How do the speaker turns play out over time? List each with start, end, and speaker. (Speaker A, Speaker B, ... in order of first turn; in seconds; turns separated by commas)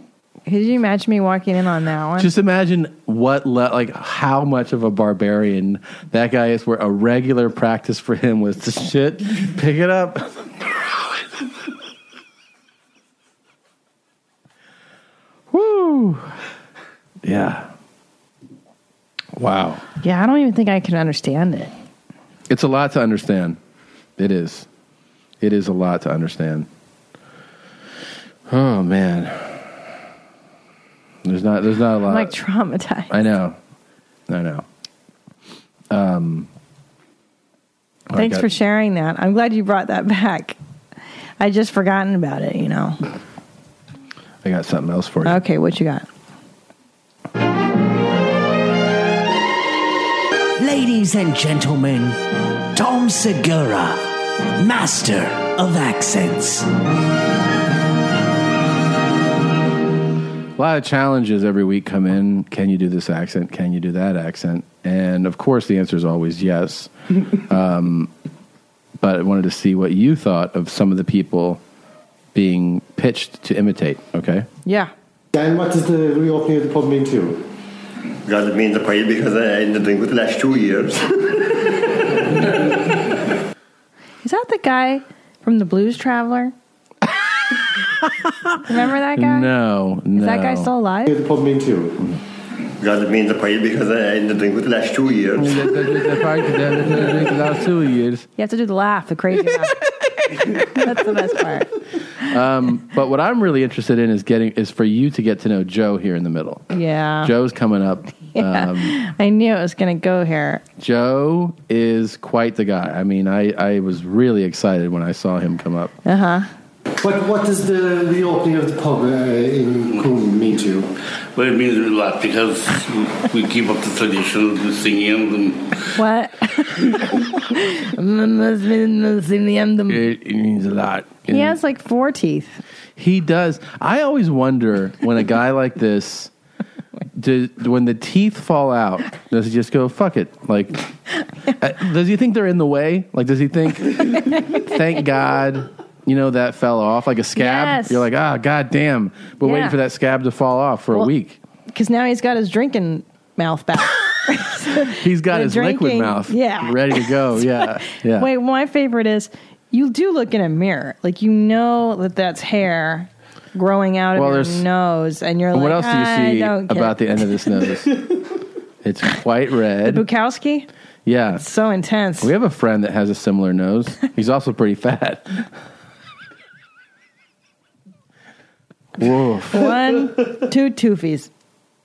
Speaker A: 0.5-2.3, Speaker B: 2.2-10.4, Speaker B: 15.5-16.3, Speaker B: 17.2-17.7, Speaker B: 19.4-19.8, Speaker A: 20.0-21.7, Speaker B: 22.5-23.6, Speaker B: 24.2-24.7, Speaker B: 25.4-26.7, Speaker B: 28.5-29.7, Speaker B: 31.2-32.3, Speaker A: 32.1-33.1, Speaker B: 33.1-33.6, Speaker B: 34.3-34.6, Speaker B: 35.9-36.5, Speaker B: 38.1-38.5, Speaker A: 38.1-40.5, Speaker A: 41.4-43.0, Speaker B: 44.4-45.4, Speaker A: 45.2-46.0, Speaker C: 50.6-52.2, Speaker C: 52.7-54.0, Speaker C: 54.6-56.6, Speaker B: 60.6-66.9, Speaker B: 67.5-68.1, Speaker B: 69.0-71.6, Speaker B: 72.3-74.5, Speaker D: 75.3-77.4, Speaker E: 78.3-81.0, Speaker A: 84.2-86.5, Speaker A: 88.7-89.5, Speaker B: 89.1-90.7, Speaker A: 90.1-91.1, Speaker D: 91.1-92.0, Speaker E: 92.8-95.5, Speaker B: 95.3-98.3, Speaker A: 98.4-99.7, Speaker A: 100.6-101.7, Speaker B: 102.2-106.7, Speaker A: 106.7-107.3, Speaker B: 107.2-109.0, Speaker A: 108.3-110.6, Speaker B: 110.8-115.9, Speaker A: 116.0-116.5, Speaker D: 117.0-120.9, Speaker F: 121.3-125.8, Speaker A: 126.0-130.0, Speaker B: 129.9-131.6, Speaker A: 131.3-132.6, Speaker B: 133.0-136.3, Speaker B: 137.2-140.9, Speaker B: 141.6-151.4, Speaker A: 147.3-148.0, Speaker A: 149.4-149.8, Speaker A: 151.7-167.0, Speaker B: 155.0-158.3, Speaker B: 164.1-164.7, Speaker B: 165.5-168.0, Speaker B: 168.8-170.1, Speaker A: 169.8-170.7, Speaker B: 171.1-171.4, Speaker A: 171.4-172.3, Speaker B: 172.2-175.5, Speaker B: 179.0-179.8, Speaker A: 179.5-181.3